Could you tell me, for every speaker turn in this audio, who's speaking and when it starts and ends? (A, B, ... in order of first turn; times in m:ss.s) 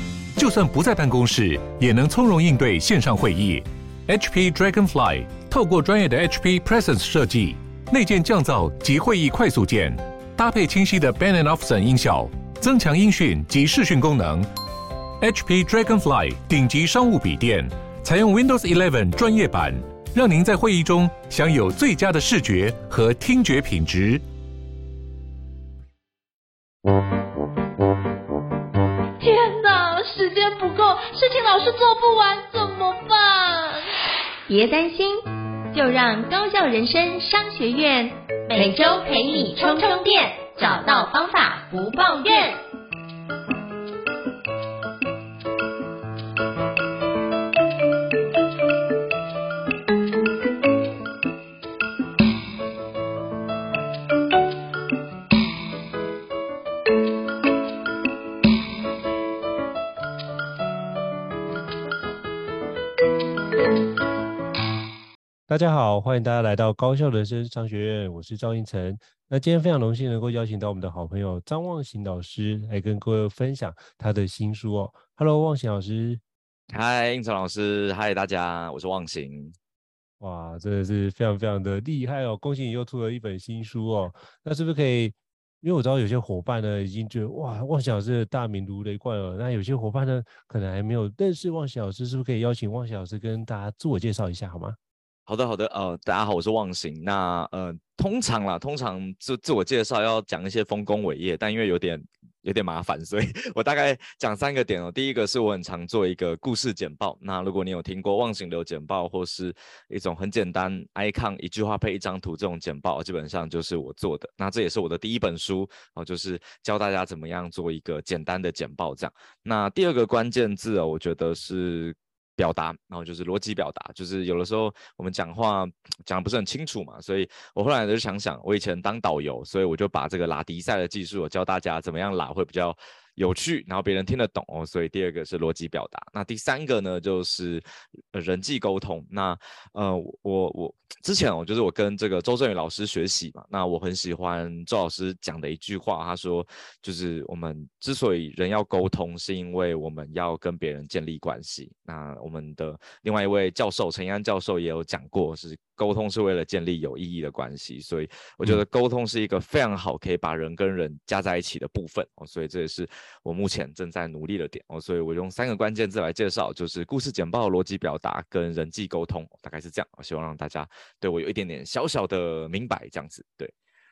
0:00.4-0:14.5 A
0:15.2-0:24.2 A
0:29.2-0:33.9 B
0:34.5-0:42.6 C
1:05.5-1:16.2 D
1:16.7-1:19.5 E
1:20.2-1:34.8 D
1:35.3-2:53.5 E